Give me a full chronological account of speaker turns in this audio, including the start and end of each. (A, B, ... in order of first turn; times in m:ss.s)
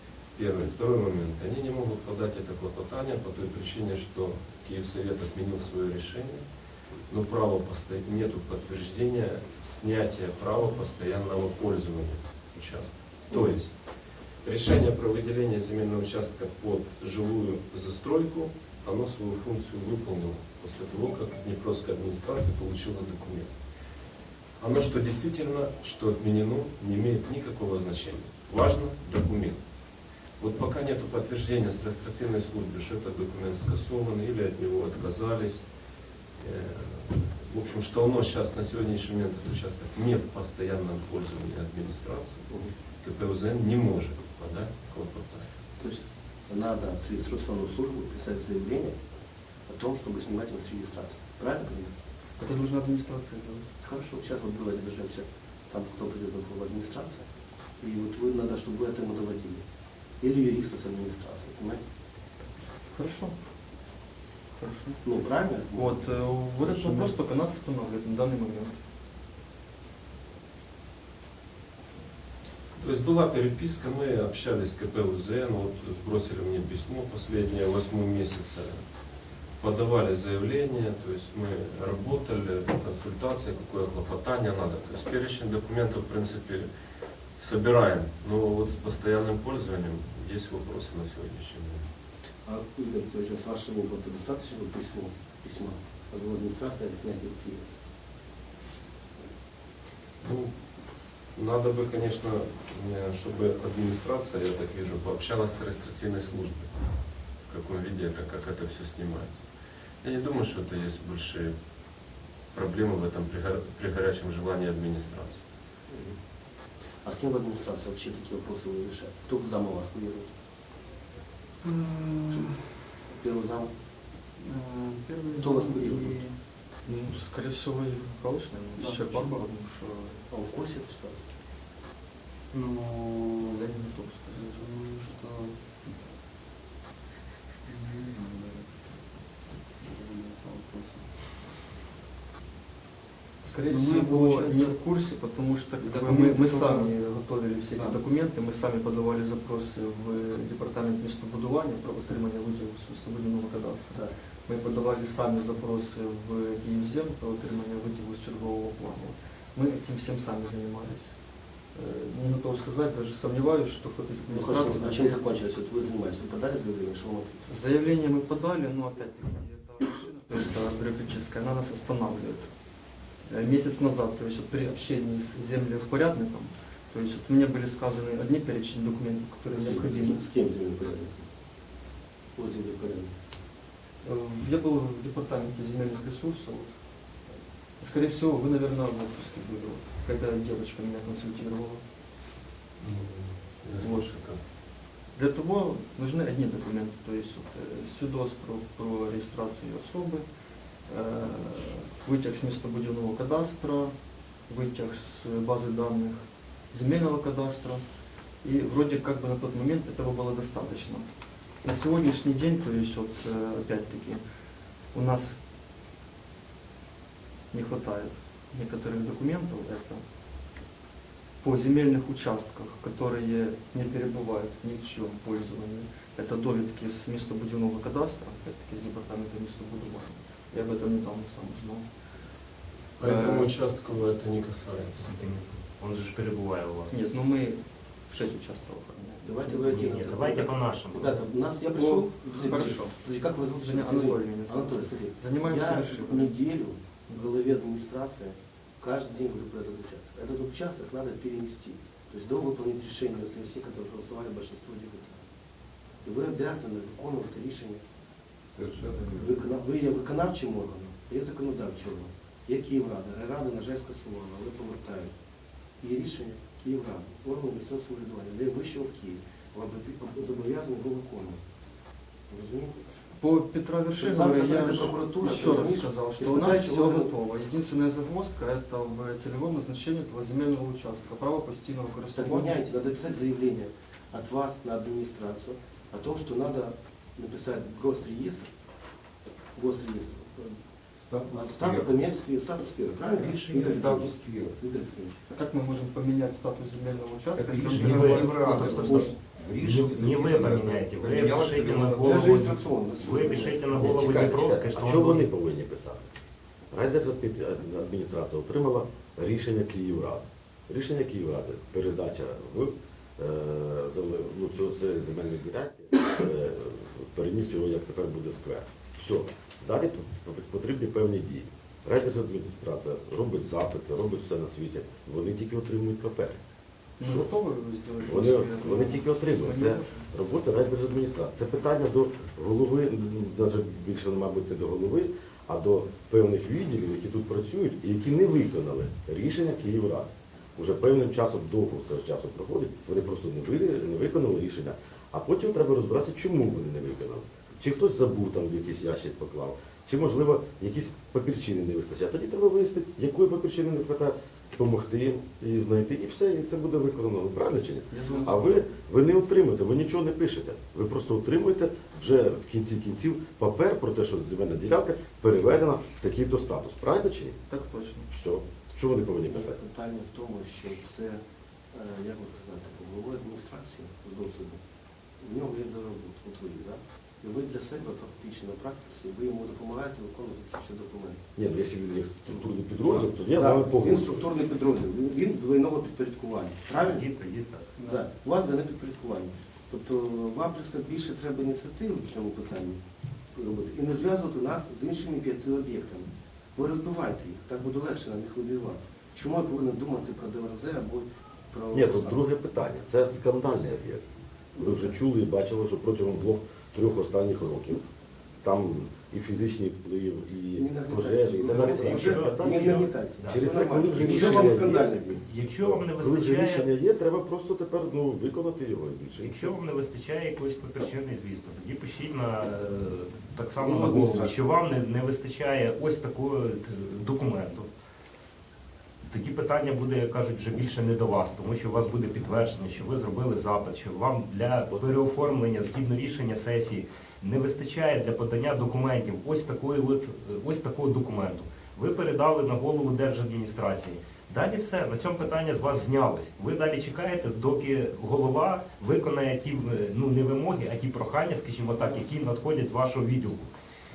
0:00.3-0:06.4 A
0:07.1-0:23.5 A
0:24.6-0:29.6 A
0:30.4-0:35.7 A
0:36.4-0:42.5 A
0:43.0-0:45.5 A
0:45.8-0:49.0 B
0:49.7-0:51.9 B
0:52.4-0:53.7 C
0:53.8-0:57.3 B
0:57.8-0:59.6 B
1:00.2-1:01.8 B
1:02.9-1:03.4 C
1:04.6-1:05.0 C
1:05.0-1:06.1 B
1:05.7-1:08.7 C
1:06.6-1:07.1 B
1:12.8-1:18.8 A
1:19.6-1:26.7 A
1:27.4-1:31.8 A
1:32.4-1:37.7 B
1:40.2-1:40.6 A
1:41.3-1:46.8 A
1:47.4-1:49.5 A
1:50.0-1:51.5 A
1:52.5-1:55.4 A
1:55.9-1:56.2 B
1:57.0-2:00.3 B
2:01.6-2:02.7 D
2:03.1-2:03.7 B
2:04.4-2:06.4 D
2:05.4-2:06.2 B
2:06.8-2:10.2 C
2:08.8-2:09.2 D
2:10.3-2:11.2 B
2:12.5-2:13.7 D
2:13.4-2:14.6 C
2:14.3-2:15.6 D
2:17.6-2:18.7 D
2:19.8-2:21.1 D
2:23.4-2:45.2 C
2:23.7-2:24.8 D
2:25.8-2:26.9 D
2:27.7-2:28.0 D
2:44.3-2:47.5 B
2:47.5-2:52.5 C
2:53.3-3:00.2 C
2:59.5-3:01.2 B
3:02.4-3:03.1 B
3:04.0-3:06.7 C
3:07.8-3:11.8 C
3:12.8-3:14.4 A
3:13.8-3:14.1 C
3:15.1-3:20.2 C
3:20.9-3:27.8 C
3:28.4-3:31.1 C
3:31.6-3:34.2 C
3:34.9-3:35.4 C
3:37.5-3:40.0 C
3:41.4-3:51.9 C
3:53.0-3:55.1 A
3:53.0-3:53.5 C
3:55.0-3:56.9 E
3:56.9-3:59.6 C
3:59.2-4:15.2 B
3:59.6-4:01.2 E
4:01.7-4:03.0 C
4:03.5-4:06.4 C
4:16.0-4:17.8 B
4:18.5-4:19.4 F
4:19.0-4:25.1 B
4:25.8-4:31.4 B
4:32.3-4:32.8 B
4:33.2-4:42.5 C
4:34.0-4:37.1 B
4:42.1-4:48.5 B
4:49.5-4:50.6 B
4:51.0-4:51.9 F
4:51.3-4:55.2 B
4:53.1-4:54.6 F
4:55.3-4:59.1 C
4:57.4-5:02.4 F
4:57.7-4:59.0 E
4:59.6-5:05.3 E
5:02.0-5:04.2 B
5:03.7-5:06.1 G
5:06.7-5:26.4 G
5:27.0-5:30.1 C
5:27.0-5:27.3 G
5:28.0-6:07.4 G
5:57.9-5:58.7 C
6:07.5-6:08.1 C
6:08.1-6:09.6 G
6:09.3-6:11.2 B
6:11.7-6:14.6 B
6:15.2-6:21.3 B
6:21.4-6:24.2 G
6:22.3-6:27.1 B
6:26.7-6:27.8 E
6:27.8-6:28.0 C
6:27.8-6:32.8 B
6:33.4-6:42.2 B
6:41.7-6:44.0 G
6:44.5-6:45.0 B
6:44.6-6:47.8 G
6:48.4-6:55.0 G
6:50.5-6:55.2 B
6:51.4-6:56.7 E
6:55.6-6:59.5 G
6:59.2-7:07.7 E
7:03.6-7:04.4 B
7:09.0-7:33.5 E
7:14.7-7:15.0 G